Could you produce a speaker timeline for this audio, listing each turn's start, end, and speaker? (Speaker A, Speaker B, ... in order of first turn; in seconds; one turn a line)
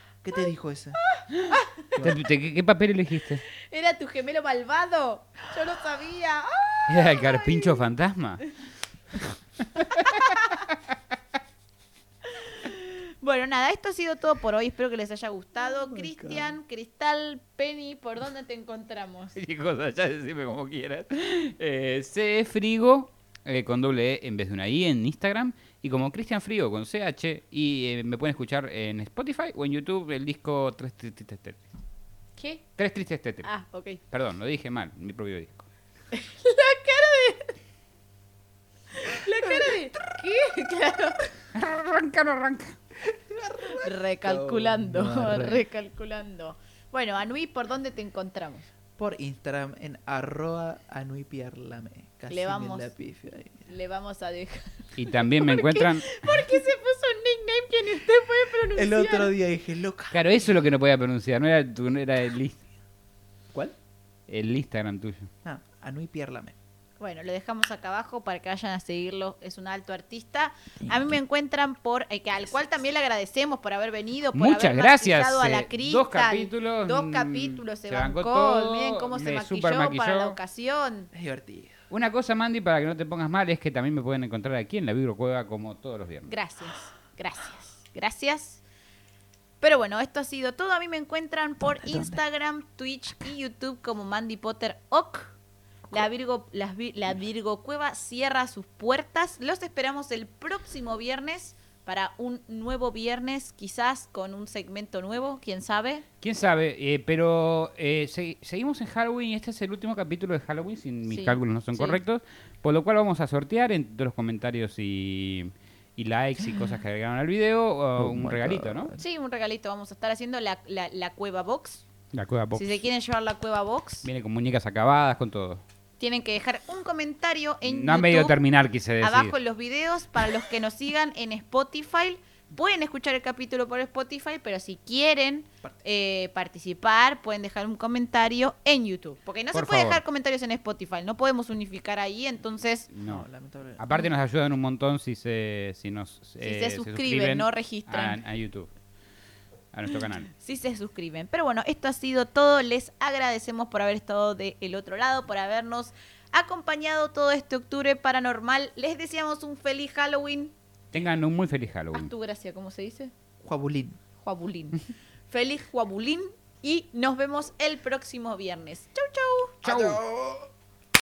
Speaker A: 0.2-1.0
Speaker B: 1.1-1.9
Speaker C: 1.4-3.4
Speaker A: 2.0-2.2
Speaker B: 3.5-7.8
Speaker C: 6.9-8.6
Speaker C: 9.2-10.4
Speaker B: 9.9-10.7
Speaker B: 12.3-19.4
Speaker A: 15.7-16.6
Speaker C: 19.4-31.7
Speaker B: 32.4-32.6
Speaker C: 32.8-33.5
Speaker B: 33.4-34.0
Speaker C: 34.1-35.6
Speaker B: 36.1-37.5
Speaker B: 38.9-41.3
Speaker A: 39.5-39.8
Speaker C: 41.5-42.8
Speaker A: 43.0-45.6
Speaker B: 43.6-48.7
Speaker A: 49.0-53.7
Speaker B: 52.3-53.0
Speaker B: 53.6-59.3
Speaker C: 55.0-56.3
Speaker A: 58.8-60.3
Speaker C: 60.1-62.6
Speaker C: 64.3-65.3
Speaker A: 65.4-66.6
Speaker B: 67.0-81.1
Speaker C: 74.3-80.4
Speaker A: 81.1-81.7
Speaker C: 81.9-86.3
Speaker B: 86.3-88.6
Speaker B: 89.6-95.3
Speaker A: 91.6-92.2
Speaker B: 95.9-106.0
Speaker C: 106.2-118.9
Speaker B: 111.1-112.0
Speaker A: 118.0-119.0
Speaker B: 119.0-121.8
Speaker C: 122.1-122.8
Speaker B: 122.5-124.1
Speaker C: 124.0-125.6
Speaker B: 126.0-128.4
Speaker C: 127.7-129.3
Speaker B: 129.0-142.9
Speaker C: 139.5-140.0
Speaker C: 142.9-143.3
Speaker A: 143.1-143.8
Speaker C: 143.8-148.7
Speaker B: 146.4-148.2
Speaker C: 149.7-150.3
Speaker B: 150.3-160.5
Speaker C: 160.9-162.1
Speaker B: 161.9-163.1
Speaker A: 163.4-164.0
Speaker B: 164.2-169.6
Speaker C: 169.6-170.0
Speaker A: 169.7-170.4